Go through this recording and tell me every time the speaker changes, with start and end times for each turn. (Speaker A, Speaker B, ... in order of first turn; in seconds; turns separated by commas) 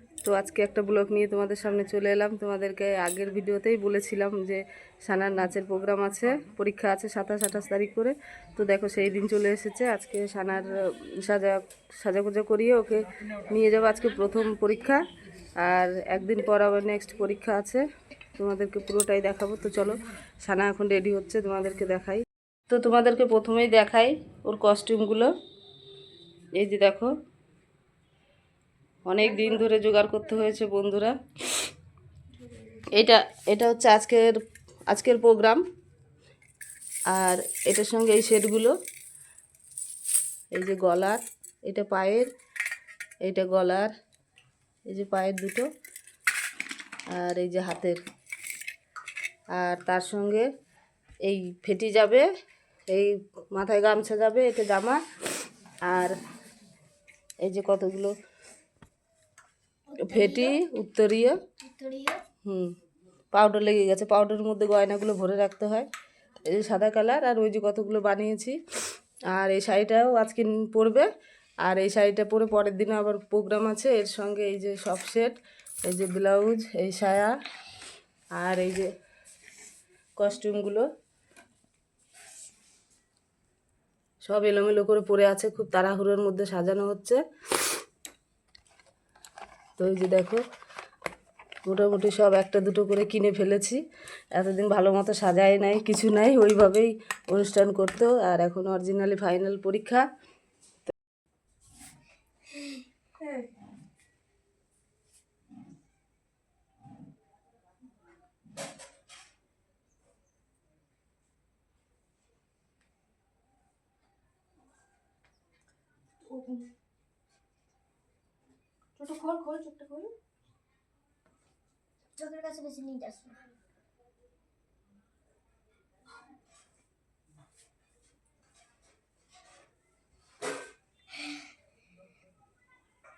Speaker A: 0.2-15.0, Speaker A: 15.6-17.9, Speaker A: 18.4-25.3, Speaker A: 26.6-27.1, Speaker A: 29.1-31.2, Speaker B: 32.4-32.9, Speaker A: 32.9-35.6, Speaker A: 37.1-38.8, Speaker A: 40.5-42.3, Speaker A: 43.2-43.9, Speaker A: 44.9-45.7, Speaker A: 47.1-48.0, Speaker A: 49.5-50.5, Speaker A: 51.2-52.3, Speaker A: 52.9-55.0, Speaker A: 55.8-56.2, Speaker A: 57.4-58.2, Speaker C: 59.9-60.6, Speaker A: 60.0-61.4, Speaker C: 61.6-62.2, Speaker A: 62.5-62.8, Speaker A: 63.3-65.9, Speaker A: 66.4-68.6, Speaker A: 69.3-71.1, Speaker A: 71.6-77.3, Speaker A: 78.3-78.9, Speaker A: 80.2-80.9, Speaker A: 84.2-87.2, Speaker A: 89.8-90.4, Speaker A: 91.7-93.8, Speaker A: 94.3-100.1, Speaker B: 103.2-103.5, Speaker B: 116.2-116.7, Speaker B: 119.0-120.1, Speaker C: 122.2-123.4